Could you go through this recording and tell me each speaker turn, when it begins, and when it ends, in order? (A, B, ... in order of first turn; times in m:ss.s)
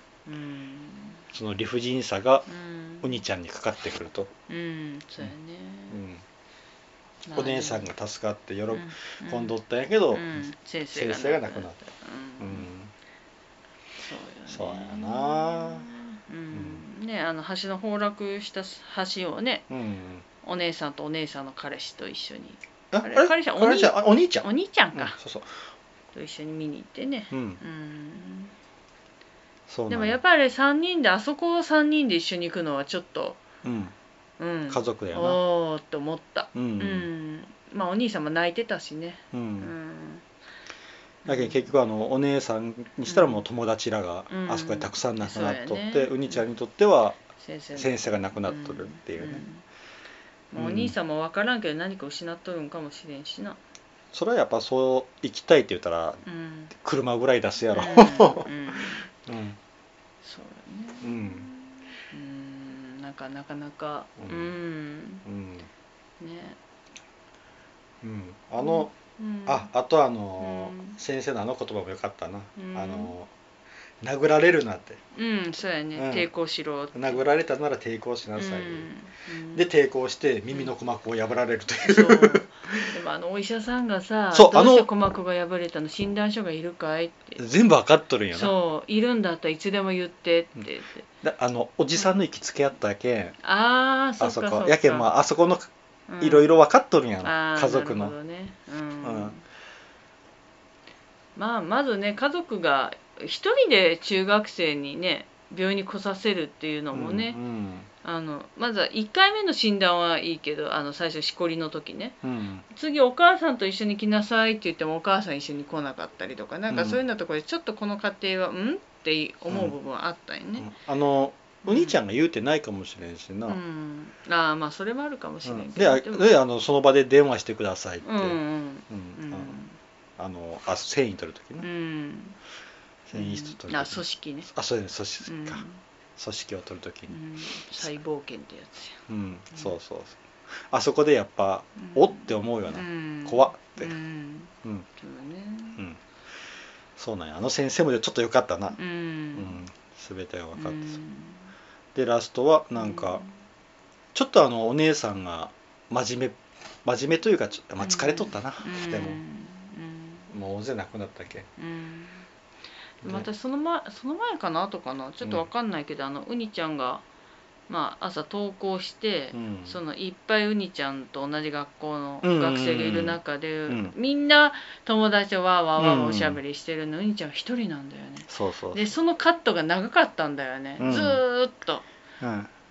0:00.3-0:01.2 A
0:01.3-0:02.5 B
0:02.5-0:03.2 A
0:03.0-0:04.3 B
0:04.5-0:06.0 A
0:05.9-0:06.2 B
0:07.3-0:07.9 A
0:07.4-0:11.8 B
0:08.7-0:09.5 A
0:10.1-0:12.7 A
0:12.4-0:12.9 B
0:14.0-0:19.7 A
0:14.5-0:15.8 B
0:16.5-0:16.8 B
0:19.7-0:20.2 B
0:20.4-0:25.2 A
0:22.9-0:25.5 B
0:26.1-0:28.5 A
0:27.3-0:27.6 B
0:29.7-0:30.2 B
0:29.9-0:33.4 A
0:33.6-0:33.9 B
0:34.4-0:40.2 A
0:34.7-0:35.4 B
0:36.6-0:37.1 B
0:39.3-0:39.7 B
0:41.2-0:41.6 A
0:41.3-0:47.2 B
0:43.1-0:43.5 A
0:44.3-0:46.4 A
0:47.4-0:49.6 A
0:47.8-0:49.4 B
0:50.5-0:53.6 A
0:50.6-0:51.0 B
0:54.1-0:56.2 B
0:56.3-0:56.7 A
0:56.7-0:58.7 B
0:57.7-0:59.1 A
0:59.2-0:59.6 B
1:00.2-1:05.2 A
1:01.0-1:01.5 B
1:04.2-1:04.5 B
1:05.2-1:05.7 B
1:06.2-1:06.6 A
1:08.0-1:08.9 B
1:08.6-1:09.7 A
1:09.5-1:13.3 B
1:10.4-1:11.0 A
1:12.6-1:13.1 A
1:14.0-1:15.0 B
1:15.2-1:17.2 A
1:16.0-1:16.3 B
1:16.9-1:18.9 B
1:18.4-1:19.7 A
1:19.5-1:22.9 B
1:21.9-1:27.4 A
1:24.3-1:24.9 B
1:27.4-1:28.6 B
1:28.3-1:31.1 A
1:31.2-1:33.4 B
1:33.4-1:35.1 A
1:34.2-1:38.2 B
1:36.1-1:36.6 A
1:37.2-1:39.4 A
1:39.0-1:39.4 B
1:41.4-1:47.4 A
1:46.9-1:47.9 B
1:48.0-1:52.2 A
1:52.2-1:52.6 B
1:52.7-2:00.7 A
1:56.7-1:57.0 B
1:59.5-1:59.8 B
2:00.6-2:03.6 B
2:01.6-2:02.0 A
2:03.5-2:06.3 A
2:05.4-2:08.4 B
2:08.0-2:09.8 A
2:08.9-2:09.6 B
2:10.2-2:11.7 B
2:11.6-2:12.4 A
2:13.1-2:15.6 B
2:13.1-2:14.5 A
2:15.2-2:15.8 A
2:16.2-2:17.1 B
2:17.1-2:19.0 A
2:19.1-2:20.2 B
2:20.7-2:24.0 B
2:21.8-2:25.8 A
2:27.0-2:28.8 B
2:28.8-2:29.6 A
2:29.4-2:31.0 B
2:30.6-2:31.5 A
2:32.0-2:33.2 B
2:32.8-2:33.3 A
2:34.1-2:39.2 B
2:37.8-2:40.3 A
2:40.3-2:41.5 B
2:41.6-2:42.2 A
2:43.0-2:47.0 A
2:45.2-2:45.5 B
2:47.7-3:01.8 A
2:49.3-2:49.8 B
2:52.2-2:53.9 B
2:55.8-2:56.4 B
2:58.3-2:58.9 B
3:00.8-3:01.2 B
3:02.2-3:02.5 B